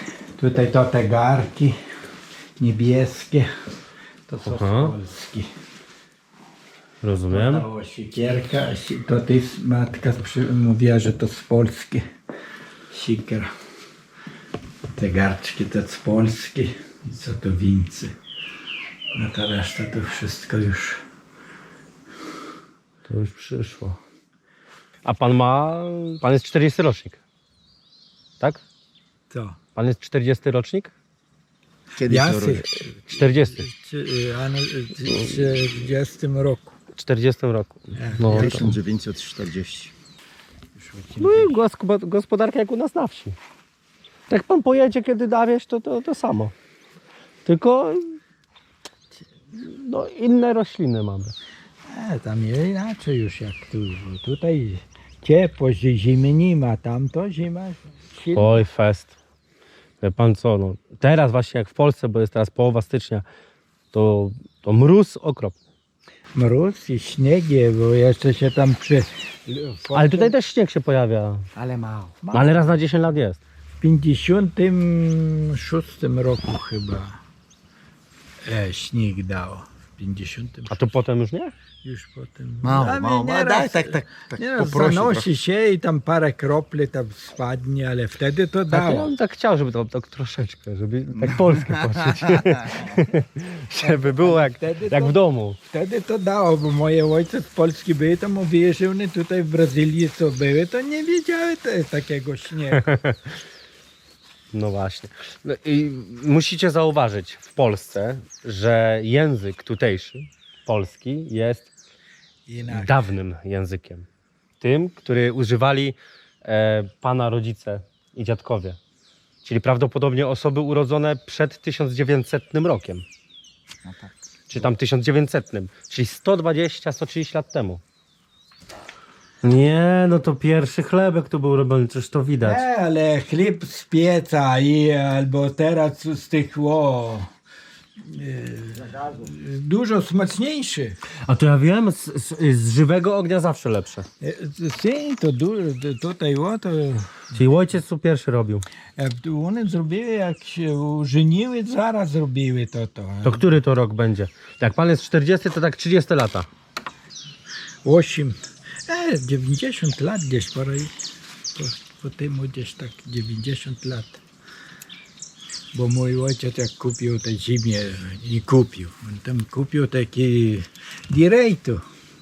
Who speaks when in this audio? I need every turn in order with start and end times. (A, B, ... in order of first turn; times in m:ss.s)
0:00.4-0:01.8 A
0:02.6-0:03.5 A
0:04.3-0:05.5 A
0:04.4-0:05.0 B
0:07.0-0:07.7 B
0:07.3-0:12.0 A
0:12.9-0:13.5 A
0:15.0-0:18.1 A
0:19.2-0:21.0 A
0:23.1-0:24.0 B
0:25.0-0:27.2 B
0:29.3-0:29.6 A
0:29.8-0:30.9 B
0:32.0-0:32.6 C
0:32.1-0:36.8 A
0:33.1-0:33.7 B
0:37.0-0:38.7 B
0:38.0-0:38.7 A
0:38.3-0:39.9 C
0:40.8-0:41.5 A
0:41.2-0:43.4 B
0:44.3-0:46.5 B
0:47.4-0:48.2 B
0:49.5-0:51.3 B
0:51.9-0:58.6 A
0:58.3-0:59.2 B
1:00.0-1:03.2 B
1:03.9-1:05.6 B
1:06.4-1:10.3 A
1:09.9-1:11.5 B
1:11.6-1:12.2 C
1:12.2-1:12.7 A
1:12.3-1:13.4 B
1:13.8-1:17.2 A
1:18.4-1:20.9 A
1:20.7-1:21.5 B
1:21.8-1:29.1 A
1:22.6-1:25.3 C
1:28.7-1:35.6 B
1:31.2-1:32.9 C
1:33.8-1:35.2 A
1:35.7-1:42.9 A
1:42.8-1:43.2 B
1:44.5-1:51.7 B
1:52.5-1:53.1 A
1:52.7-1:54.1 B
1:54.6-1:58.8 B
1:59.4-2:03.0 B
2:03.8-2:04.7 C
2:04.5-2:07.8 B
2:09.4-2:12.6 B
2:12.4-2:17.3 A
2:18.0-2:21.0 A
2:18.9-2:19.2 C
2:21.3-2:24.1 B
2:24.2-2:27.4 A
2:27.4-2:28.6 B
2:29.0-2:33.5 A
2:33.2-2:36.5 B
2:37.8-2:40.9 A
2:41.6-2:44.2 A
2:45.7-2:51.8 A